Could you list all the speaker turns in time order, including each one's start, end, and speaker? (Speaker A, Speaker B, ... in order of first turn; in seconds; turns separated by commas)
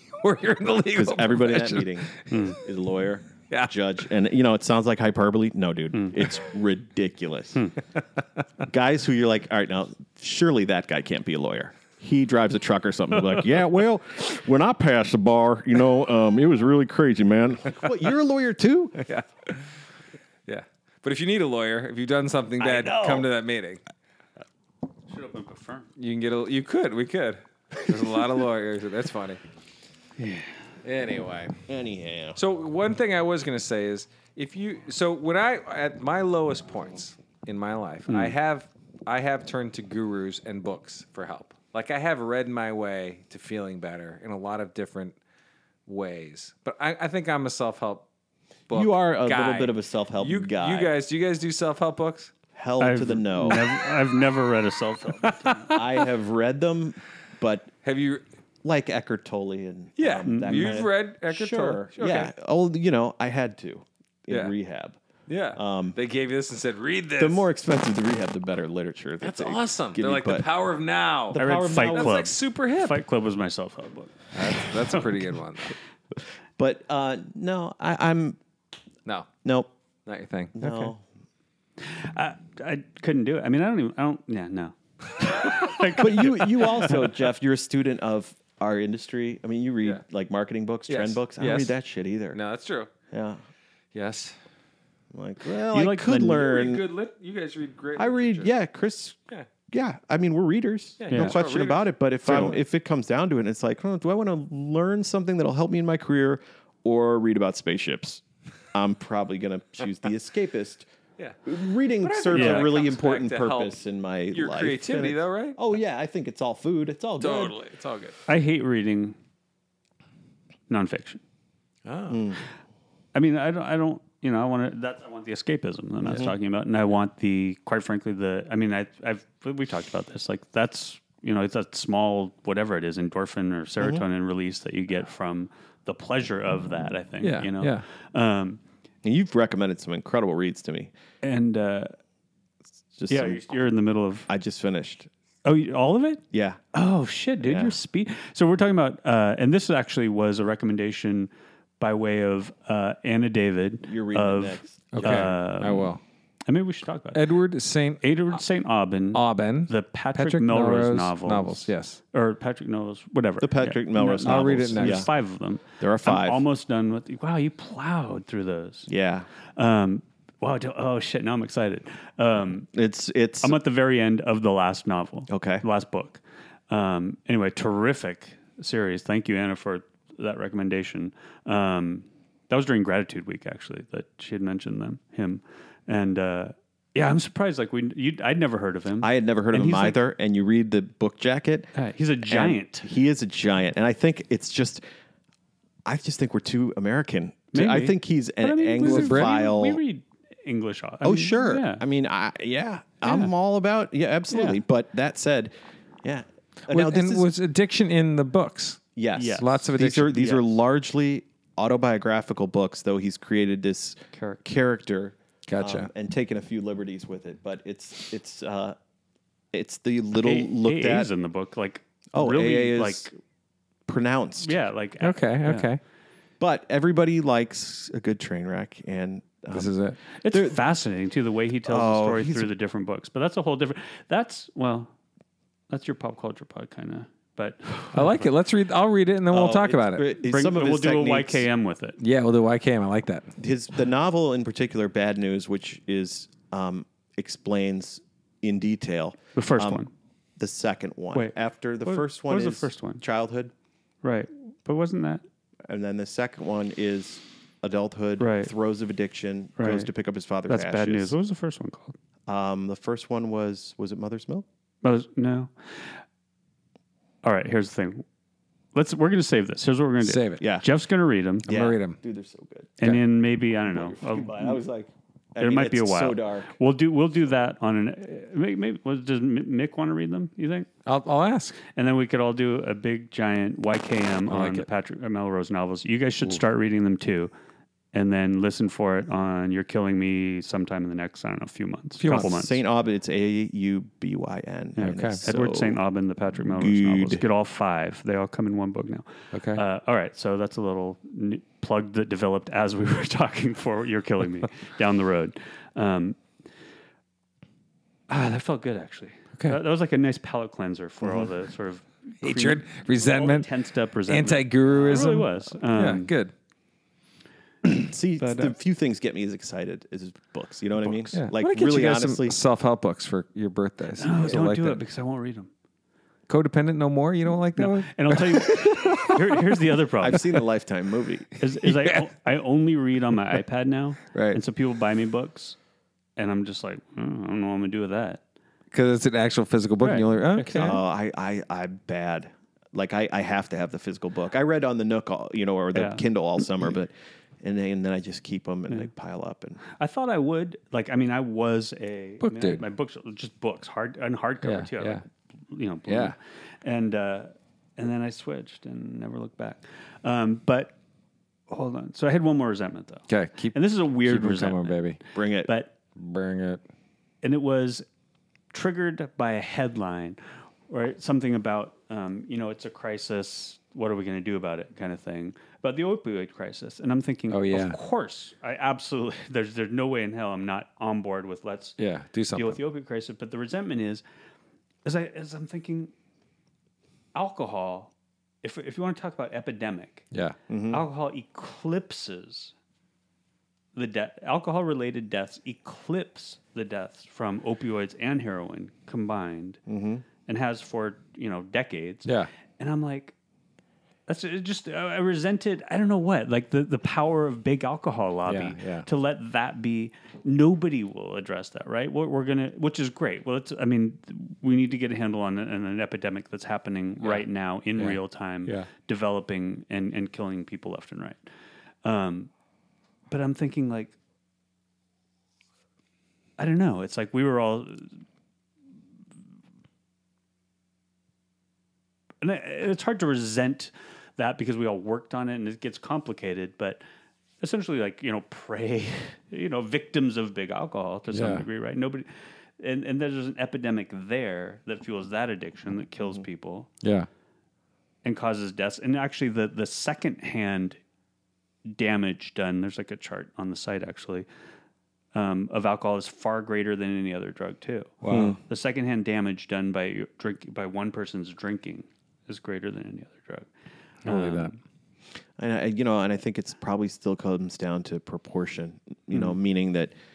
Speaker A: 0.2-2.4, Speaker B: 0.9-7.7, Speaker C: 2.3-2.6, Speaker B: 8.7-19.0, Speaker A: 19.0-19.6, Speaker A: 20.4-23.8, Speaker C: 22.6-23.2, Speaker C: 25.1-25.9, Speaker A: 26.0-29.4, Speaker C: 30.2-30.6, Speaker A: 30.8-31.6, Speaker B: 31.7-32.4, Speaker A: 32.3-45.2, Speaker C: 38.1-38.3, Speaker A: 45.9-48.0, Speaker A: 48.7-52.3, Speaker B: 48.7-50.9, Speaker B: 52.5-53.7, Speaker C: 52.8-55.7, Speaker A: 55.4-55.8, Speaker B: 55.7-57.8, Speaker A: 57.8-58.2, Speaker B: 58.6-65.0, Speaker A: 60.0-62.3, Speaker C: 60.2-60.8, Speaker A: 64.3-64.5, Speaker A: 65.3-67.5, Speaker B: 65.5-66.0, Speaker B: 67.2-70.5, Speaker A: 69.2-73.0, Speaker B: 71.3-72.2, Speaker C: 71.3-75.2, Speaker A: 74.3-75.8, Speaker B: 76.6-78.4, Speaker B: 79.4-79.7, Speaker A: 80.0-80.9, Speaker B: 80.5-81.0, Speaker C: 81.8-87.0, Speaker B: 85.9-92.4, Speaker A: 90.9-91.7, Speaker A: 92.3-92.9, Speaker B: 93.1-93.4, Speaker A: 93.9-94.4, Speaker B: 95.1-96.8, Speaker C: 95.7-96.5, Speaker A: 96.2-98.5, Speaker B: 98.0-108.2, Speaker A: 101.0-102.6, Speaker C: 101.1-101.4, Speaker B: 108.7-110.9, Speaker A: 111.2-113.8, Speaker B: 111.4-117.5, Speaker C: 112.3-112.7, Speaker A: 114.3-115.6, Speaker A: 117.2-118.2, Speaker C: 118.3-119.2, Speaker C: 120.7-121.2, Speaker A: 121.8-122.4, Speaker B: 122.1-122.4, Speaker C: 123.1-138.6, Speaker B: 126.0-126.3, Speaker A: 137.2-137.8, Speaker B: 139.0-140.9, Speaker C: 141.2-141.9, Speaker B: 142.9-143.5, Speaker C: 143.1-144.3, Speaker B: 144.3-145.1, Speaker C: 145.4-146.2, Speaker B: 146.3-146.6, Speaker C: 146.7-155.9, Speaker B: 147.4-147.8, Speaker B: 153.8-155.3, Speaker A: 154.9-156.0, Speaker C: 156.5-157.2, Speaker A: 157.1-158.4, Speaker C: 158.0-168.9, Speaker A: 159.1-162.0, Speaker B: 163.4-165.1, Speaker A: 164.2-165.1, Speaker B: 165.8-166.4, Speaker B: 168.9-169.3, Speaker C: 169.6-172.7, Speaker B: 172.7-173.6, Speaker C: 173.4-190.0, Speaker B: 175.3-175.6, Speaker B: 189.0-191.7, Speaker C: 191.7-192.9, Speaker B: 192.3-194.8, Speaker B: 195.8-199.8, Speaker C: 197.5-201.8, Speaker A: 198.8-199.3, Speaker B: 201.0-207.2, Speaker C: 203.0-203.3, Speaker C: 204.3-204.6, Speaker A: 206.7-210.2, Speaker B: 208.9-218.8, Speaker C: 209.2-210.4, Speaker C: 214.1-214.4, Speaker A: 215.5-215.9, Speaker B: 219.5-221.1, Speaker C: 220.2-223.1, Speaker B: 222.1-223.1, Speaker B: 223.9-224.6, Speaker C: 224.4-225.7, Speaker A: 225.0-225.8, Speaker B: 226.4-229.7, Speaker A: 229.5-229.9, Speaker C: 230.2-234.9, Speaker B: 230.3-230.6, Speaker B: 231.7-232.5, Speaker C: 235.7-238.3, Speaker A: 237.9-240.1, Speaker B: 239.3-241.5, Speaker C: 240.2-242.0, Speaker A: 242.0-243.3, Speaker B: 243.4-249.8, Speaker C: 249.3-249.9, Speaker B: 250.4-253.5, Speaker C: 251.1-253.0, Speaker C: 254.0-255.2, Speaker B: 255.7-261.1, Speaker C: 258.2-258.5, Speaker C: 259.6-259.9, Speaker C: 260.5-261.9, Speaker B: 262.3-264.4, Speaker C: 264.8-266.0, Speaker C: 267.2-268.1, Speaker C: 268.7-271.4, Speaker A: 270.0-270.4, Speaker B: 270.4-270.6, Speaker B: 271.4-272.8, Speaker A: 271.4-272.0, Speaker C: 272.8-274.6, Speaker B: 273.7-276.5, Speaker C: 275.4-280.7, Speaker A: 280.9-281.6, Speaker C: 281.7-287.3, Speaker A: 284.3-284.7, Speaker C: 287.9-292.6, Speaker A: 292.0-292.3, Speaker B: 292.1-295.8, Speaker C: 294.8-306.2, Speaker A: 294.8-295.2, Speaker B: 296.5-297.2, Speaker A: 299.3-299.6, Speaker C: 308.1-316.1, Speaker B: 311.0-311.3, Speaker A: 312.2-313.5, Speaker A: 314.1-316.3, Speaker B: 317.6-322.4, Speaker A: 321.1-324.8, Speaker C: 324.0-325.5, Speaker A: 326.3-329.2, Speaker C: 327.6-330.3, Speaker B: 330.0-331.4, Speaker C: 331.4-335.6, Speaker A: 331.6-332.0, Speaker A: 334.1-334.4, Speaker C: 336.2-338.2, Speaker A: 338.7-340.8, Speaker C: 339.8-340.8, Speaker B: 340.6-349.6, Speaker C: 345.7-346.0, Speaker C: 349.6-360.8, Speaker A: 352.2-352.6, Speaker A: 354.4-355.0, Speaker A: 355.9-356.1, Speaker C: 361.5-365.7, Speaker A: 363.1-365.0, Speaker B: 365.1-365.5, Speaker A: 365.9-366.6, Speaker C: 367.2-367.9, Speaker C: 368.5-381.8, Speaker A: 377.3-377.8, Speaker A: 381.8-382.6, Speaker C: 382.3-384.0, Speaker C: 384.8-385.9, Speaker C: 387.1-387.9, Speaker C: 388.4-390.1, Speaker B: 390.5-390.8, Speaker C: 390.7-392.5, Speaker C: 393.7-399.6, Speaker B: 399.7-400.0, Speaker C: 400.3-403.1, Speaker C: 404.1-421.2, Speaker A: 408.3-408.9, Speaker A: 417.8-418.7, Speaker C: 421.8-422.3, Speaker C: 423.1-423.9, Speaker C: 426.4-428.0, Speaker C: 432.2-436.8, Speaker C: 437.4-446.7, Speaker A: 441.1-441.4, Speaker A: 446.8-447.1, Speaker C: 448.0-450.8, Speaker C: 451.7-454.3, Speaker C: 455.1-463.5, Speaker A: 458.0-458.4, Speaker B: 458.1-458.4, Speaker A: 464.1-464.5, Speaker C: 464.1-464.6, Speaker B: 465.4-469.9, Speaker C: 469.1-469.4